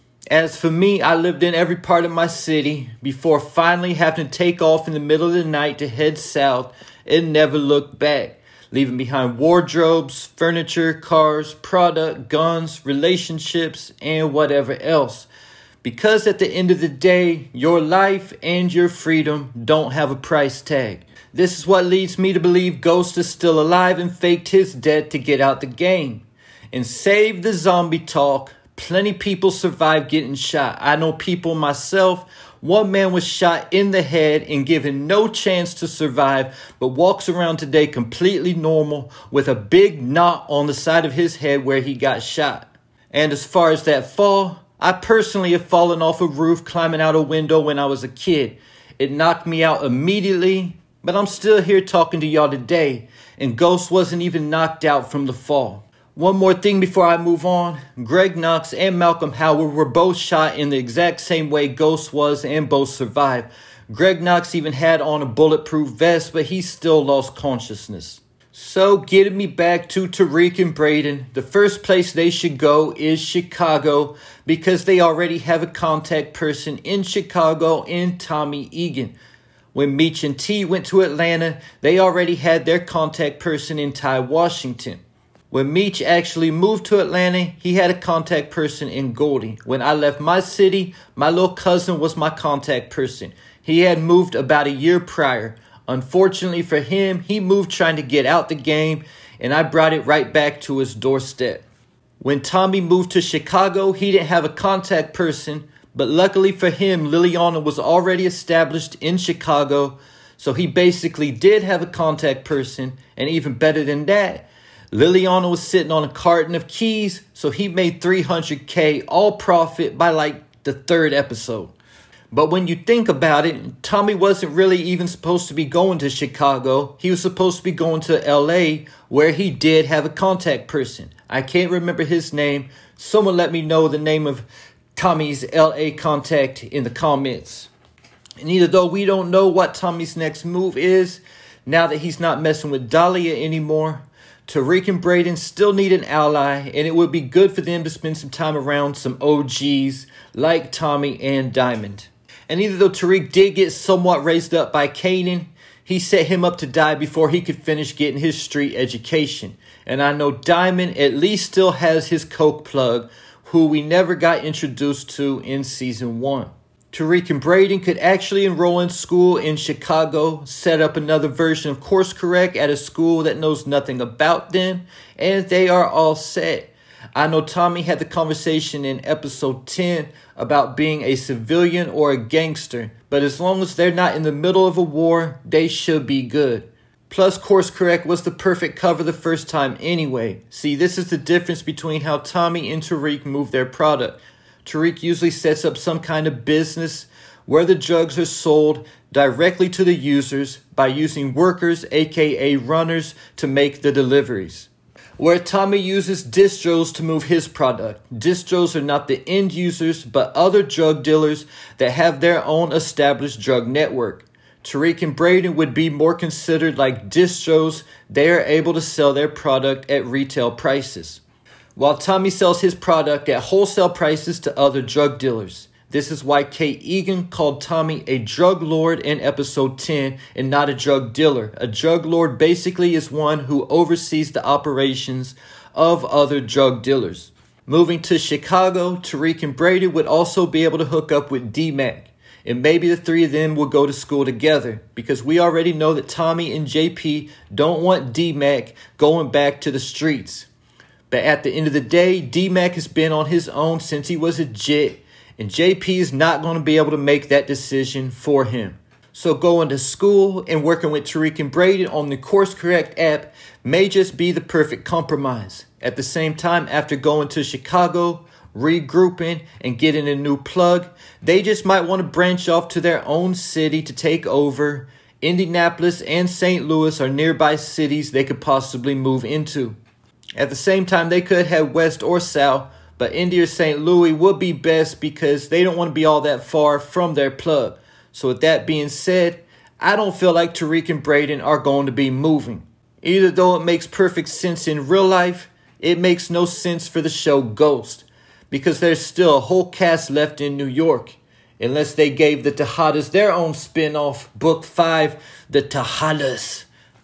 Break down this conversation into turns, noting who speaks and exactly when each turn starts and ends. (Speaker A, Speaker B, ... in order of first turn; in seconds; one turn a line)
Speaker A: 0.3-15.3
Speaker A: 15.8-79.1
Speaker A: 79.7-85.0
Speaker A: 85.5-101.6
Speaker A: 102.2-121.7
Speaker A: 122.3-137.7
Speaker A: 138.4-221.2
Speaker A: 221.8-250.5
Speaker A: 251.1-279.8
Speaker A: 280.4-306.7